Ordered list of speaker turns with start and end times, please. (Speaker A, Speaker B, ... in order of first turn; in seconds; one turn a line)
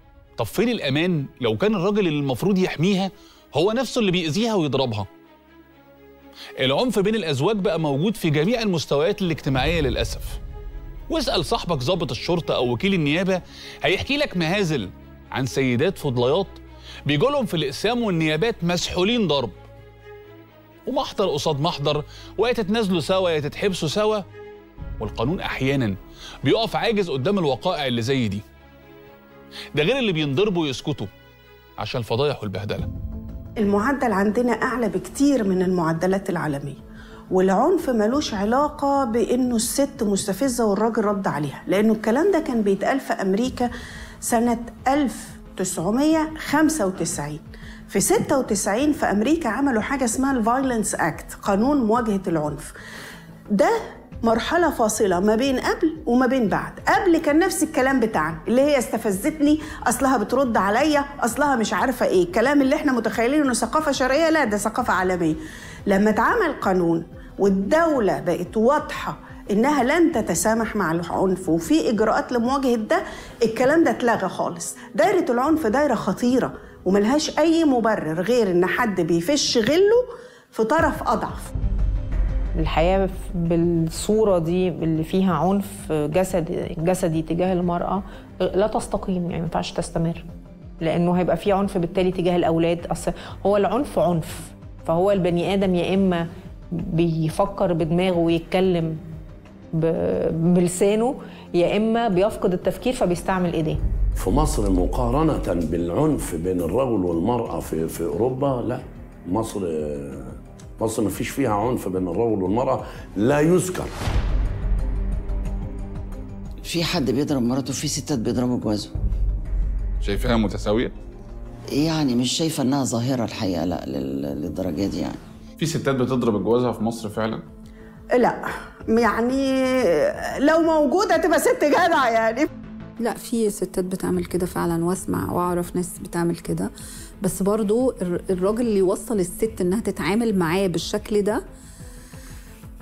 Speaker A: 0.4-5.1
Speaker A: 6.6-10.4
Speaker A: 11.1-19.6
Speaker A: 20.9-24.2
Speaker A: 25.0-28.4
Speaker A: 29.8-31.1
Speaker A: 31.8-32.9
Speaker B: 33.6-36.8
Speaker B: 37.3-43.7
Speaker B: 44.2-47.4
Speaker B: 47.9-52.7
Speaker B: 53.5-81.5
Speaker C: 82.6-90.2
Speaker C: 90.8-99.0
Speaker C: 99.8-103.8
Speaker D: 104.2-113.9
Speaker E: 116.6-118.9
Speaker A: 120.0-120.9
Speaker E: 121.7-125.2
Speaker A: 125.6-127.4
Speaker B: 128.2-132.5
Speaker F: 133.0-136.7
Speaker F: 137.2-141.4